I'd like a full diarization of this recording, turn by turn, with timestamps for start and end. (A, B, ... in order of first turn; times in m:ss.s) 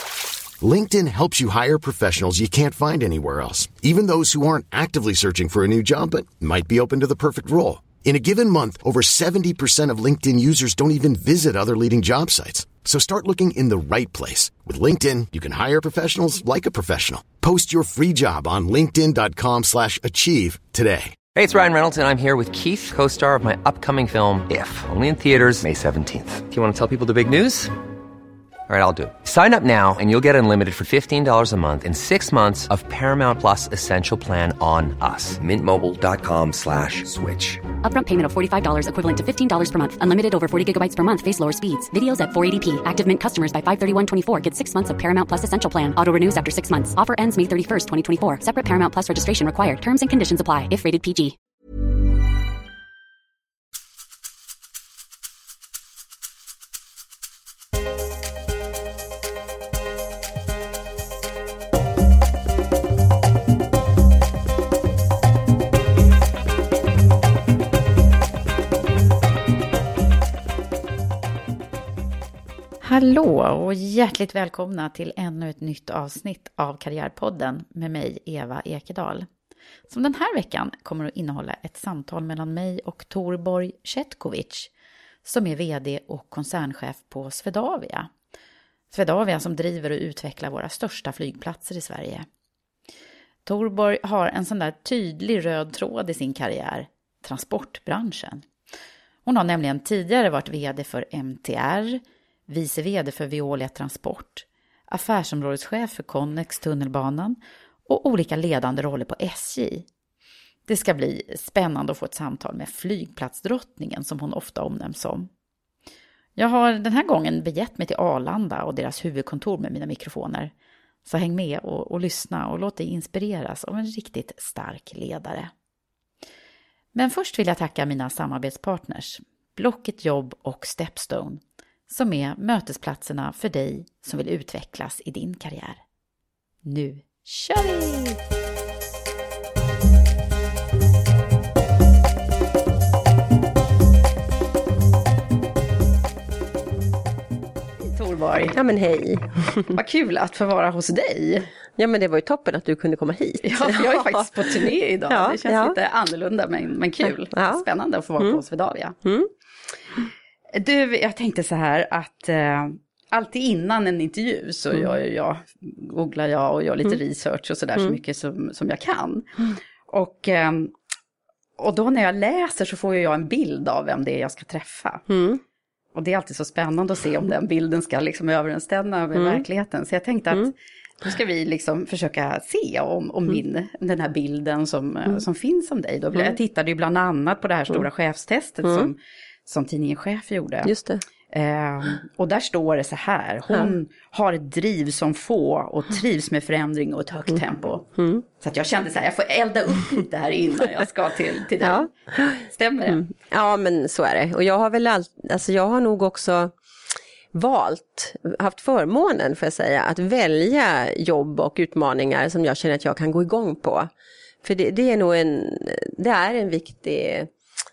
0:00.6-0:21.2 A
0:21.3-0:27.7 B
0:28.7-0:37.6 B
0:37.8-0:51.4 C
1:12.8-1:19.3 D
1:19.9-1:24.7 D
1:25.2-1:28.1 D
1:28.9-1:32.2 D
1:33.5-1:38.5 D
1:39.2-1:49.8 D
1:50.7-1:55.3 D
1:56.4-2:00.5 D
2:01.0-2:05.5 D
2:06.9-2:15.8 D
2:16.6-2:18.2 D
2:27.9-2:28.6 D
2:28.5-2:29.8 E
2:29.7-2:31.5 D
2:31.8-2:35.8 E
2:33.4-2:39.0 D
2:37.0-2:37.7 E
2:39.0-2:39.3 E
2:40.5-2:50.7 D
2:51.6-2:55.1 D
2:55.1-2:55.4 E
2:55.9-3:00.5 D
2:59.2-2:59.4 E
3:01.0-3:10.7 D
3:08.6-3:08.9 E
3:10.6-3:11.0 E
3:11.3-3:17.8 D
3:18.0-3:18.2 E
3:18.4-3:21.8 D
3:21.6-3:26.5 E
3:22.5-3:23.0 D
3:27.3-3:33.9 E
3:34.4-3:37.3 E